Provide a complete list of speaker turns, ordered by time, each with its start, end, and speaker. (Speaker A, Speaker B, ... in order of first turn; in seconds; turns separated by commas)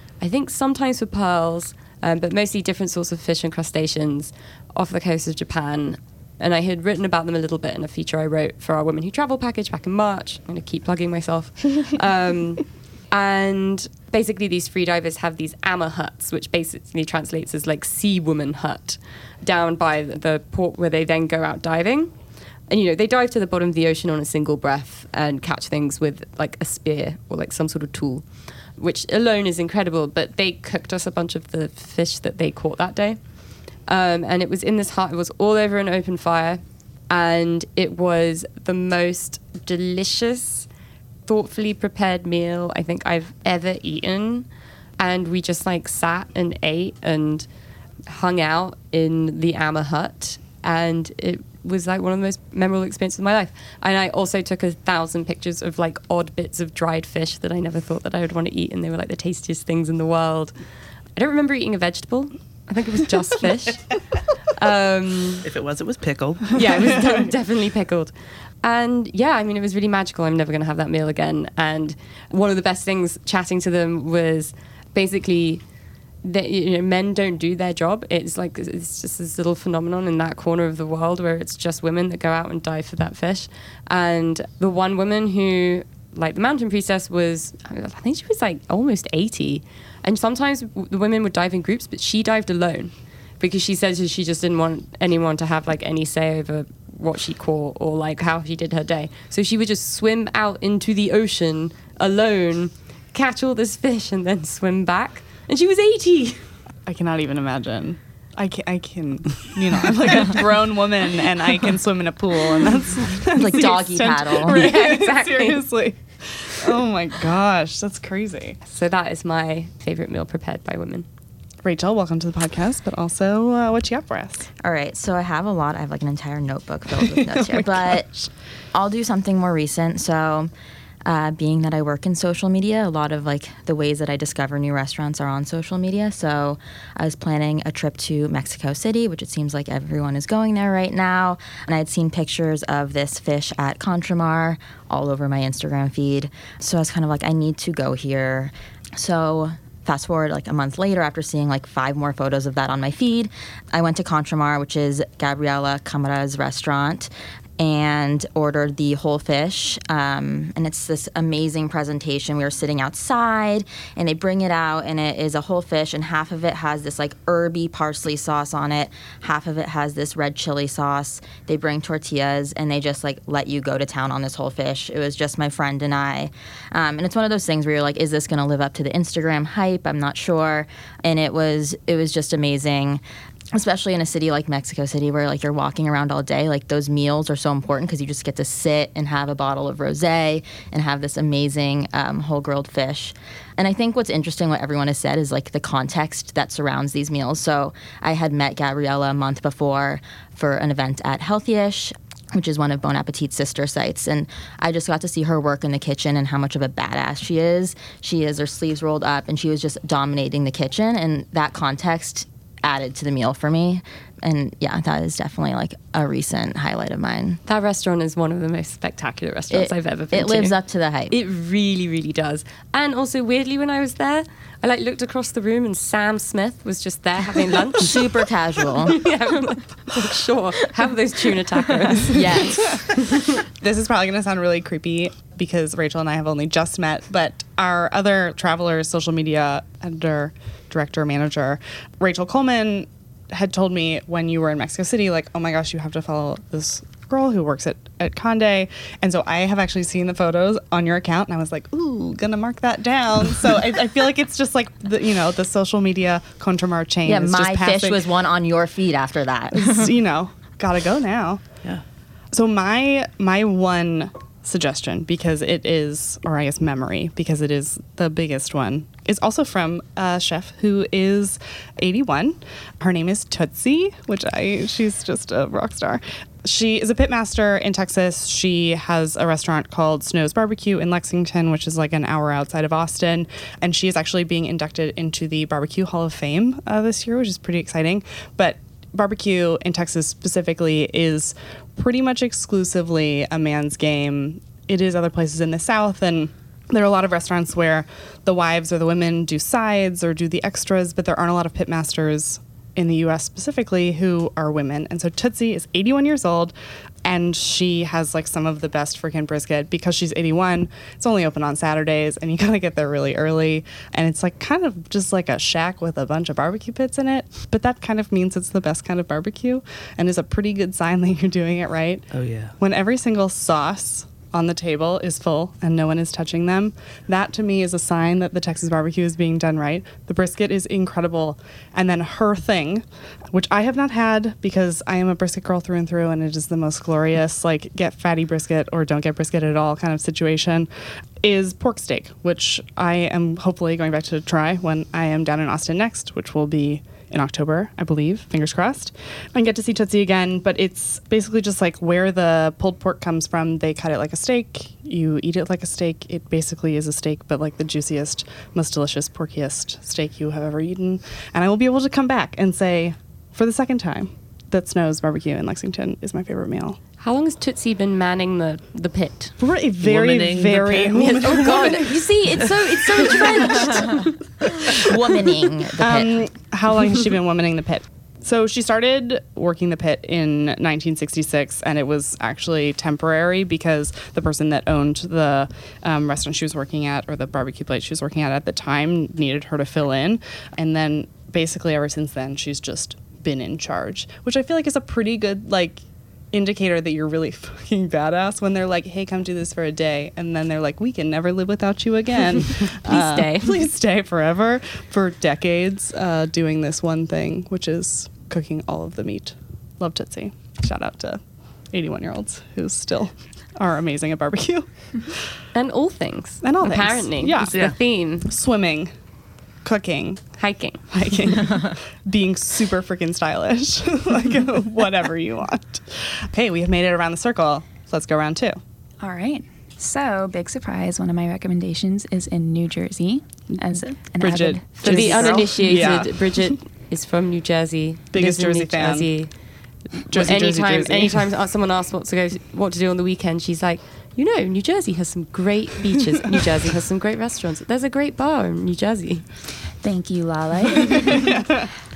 Speaker A: 0.2-40.7, Speaker A: 41.3-47.5, Speaker A: 48.1-60.6, Speaker A: 61.2-65.5, Speaker B: 65.4-67.0, Speaker A: 66.5-75.6, Speaker A: 76.2-106.5, Speaker C: 106.9-118.6, Speaker D: 113.4-114.7, Speaker A: 114.3-115.7, Speaker A: 118.7-121.0, Speaker C: 121.6-124.5, Speaker D: 124.6-128.2, Speaker C: 127.3-128.2, Speaker D: 128.7-130.5, Speaker D: 131.1-183.0, Speaker D: 183.6-217.4, Speaker A: 217.5-220.6, Speaker D: 219.5-221.1, Speaker A: 221.1-228.1, Speaker D: 227.8-229.0, Speaker A: 228.9-233.2, Speaker D: 232.1-232.9, Speaker C: 233.6-258.0, Speaker D: 257.1-259.9, Speaker C: 259.6-261.4, Speaker C: 262.3-340.7, Speaker B: 322.1-322.5, Speaker C: 341.2-366.8, Speaker A: 367.0-369.4, Speaker C: 369.4-372.1, Speaker B: 369.8-371.7, Speaker A: 371.0-374.1, Speaker D: 374.9-376.2, Speaker C: 375.8-415.2, Speaker A: 402.8-403.7, Speaker A: 415.5-418.3, Speaker C: 416.4-417.7, Speaker B: 417.5-417.8, Speaker C: 418.3-418.9, Speaker C: 419.6-428.6, Speaker A: 420.4-420.9, Speaker E: 429.0-436.0, Speaker C: 434.2-436.6, Speaker A: 434.8-439.4, Speaker C: 438.1-439.2, Speaker A: 439.9-449.3, Speaker C: 440.1-441.3, Speaker E: 449.8-451.3